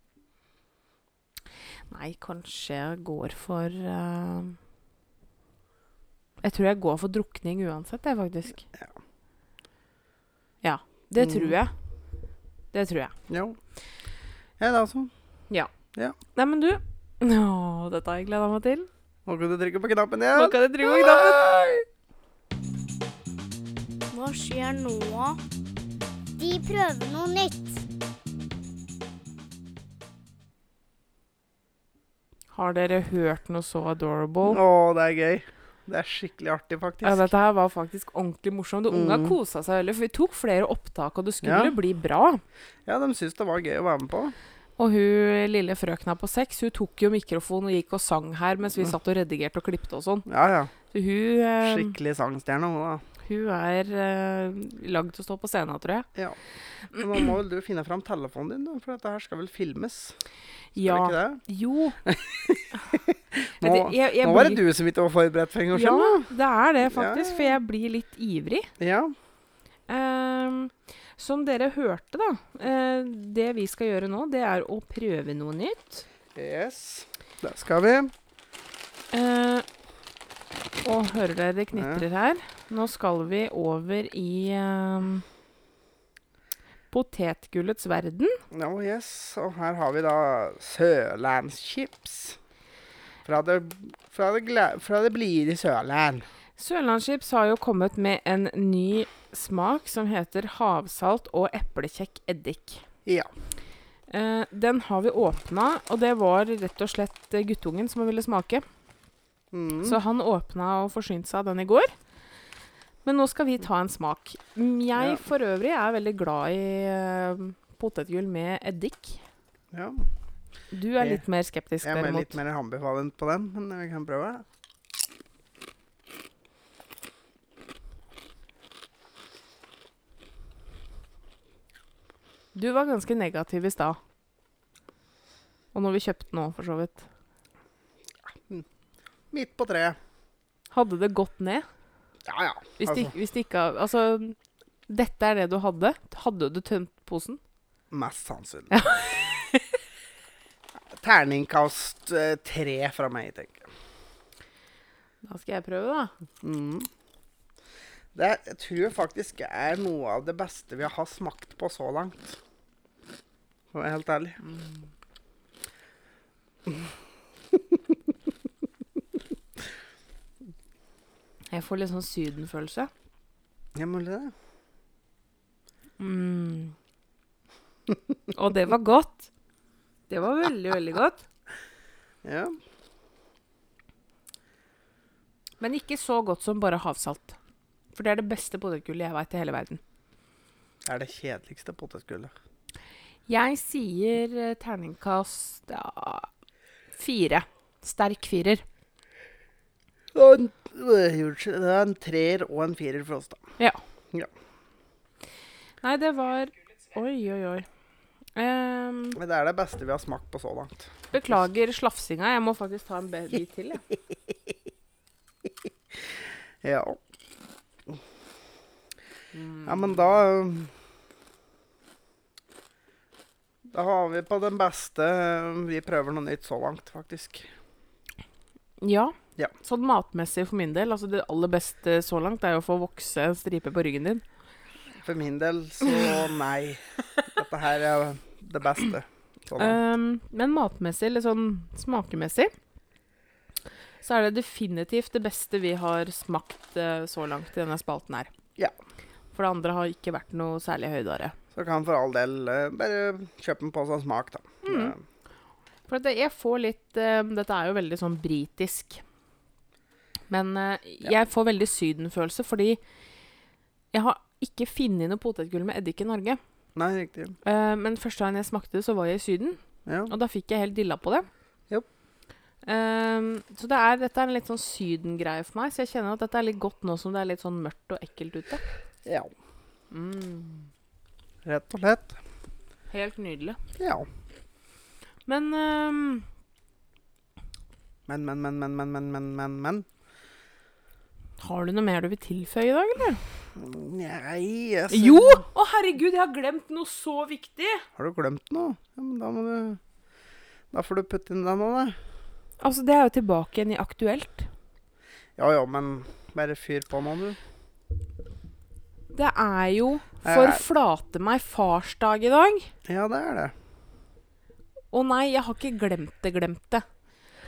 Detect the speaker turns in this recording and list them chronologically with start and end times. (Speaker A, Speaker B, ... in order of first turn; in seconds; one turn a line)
Speaker A: 1.9-4.6
Speaker A: 6.4-8.7
Speaker A: 10.6-11.7
Speaker B: 11.2-11.6
Speaker A: 12.7-13.1
Speaker B: 13.3-13.6
Speaker B: 14.6-15.1
Speaker A: 16.3-18.9
Speaker B: 19.2-21.8
Speaker A: 20.3-21.5
Speaker C: 24.1-25.4
Speaker C: 26.4-27.8
Speaker A: 32.5-34.6
Speaker B: 34.4-37.3
Speaker A: 37.0-42.4
Speaker B: 38.9-39.4
Speaker B: 41.4-41.7
Speaker B: 42.9-44.3
Speaker A: 44.8-50.3
Speaker B: 50.3-50.7
Speaker A: 50.9-52.0
Speaker B: 51.6-53.0
Speaker A: 53.2-56.1
Speaker B: 56.9-60.2
Speaker A: 60.7-62.0
Speaker B: 60.8-61.4
Speaker B: 62.0-66.3
Speaker A: 63.6-64.6
Speaker A: 65.7-68.7
Speaker B: 66.8-67.6
Speaker B: 68.8-69.1
Speaker A: 69.9-76.0
Speaker B: 76.3-78.1
Speaker A: 79.1-79.7
Speaker A: 80.8-85.2
Speaker B: 81.7-82.0
Speaker A: 86.9-88.4
Speaker B: 88.5-92.4
Speaker B: 93.2-96.2
Speaker A: 96.6-102.8
Speaker A: 104.1-108.6
Speaker B: 109.5-110.0
Speaker A: 109.8-111.9
Speaker A: 113.0-119.2
Speaker B: 119.7-120.1
Speaker A: 120.7-122.4
Speaker B: 121.8-124.4
Speaker A: 132.5-134.0
Speaker A: 135.7-137.0
Speaker B: 139.3-140.0
Speaker A: 140.7-141.7
Speaker B: 142.2-143.1
Speaker A: 142.8-144.4
Speaker A: 144.9-147.4
Speaker B: 147.9-148.8
Speaker A: 148.7-149.7
Speaker B: 150.9-153.7
Speaker A: 155.2-156.1
Speaker B: 156.4-156.9
Speaker B: 158.1-162.4
Speaker B: 163.7-164.4
Speaker A: 171.5-172.9
Speaker B: 173.7-174.3
Speaker A: 176.0-176.8
Speaker A: 178.3-179.3
Speaker A: 180.1-181.2
Speaker B: 182.2-182.6
Speaker A: 185.6-187.4
Speaker A: 187.9-189.8
Speaker B: 190.8-192.3
Speaker A: 193.3-196.3
Speaker A: 196.9-198.6
Speaker B: 200.1-203.4
Speaker A: 205.8-207.7
Speaker A: 208.3-209.2
Speaker B: 209.2-211.3
Speaker A: 211.1-213.8
Speaker B: 216.6-217.0
Speaker A: 219.3-219.8
Speaker B: 219.6-220.7
Speaker B: 223.7-227.4
Speaker A: 228.8-234.2
Speaker B: 235.0-239.8
Speaker A: 239.6-242.5
Speaker A: 244.0-248.3
Speaker A: 249.3-251.3
Speaker B: 251.5-255.0
Speaker A: 254.6-254.9
Speaker A: 255.9-259.0
Speaker A: 260.3-262.8
Speaker A: 263.9-266.4
Speaker B: 266.8-267.4
Speaker A: 267.4-271.3
Speaker B: 269.9-270.1
Speaker A: 272.6-278.6
Speaker B: 279.0-279.3
Speaker A: 279.9-280.7
Speaker B: 281.4-282.2
Speaker A: 282.9-283.6
Speaker B: 283.8-284.1
Speaker A: 285.3-286.3
Speaker B: 288.1-289.9
Speaker A: 291.4-293.2
Speaker B: 293.6-295.4
Speaker A: 294.9-297.9
Speaker B: 298.0-299.8
Speaker B: 300.7-302.0
Speaker A: 302.6-304.5
Speaker B: 305.4-307.4
Speaker A: 309.1-312.7
Speaker B: 310.2-310.6
Speaker B: 312.9-313.5
Speaker A: 314.9-316.8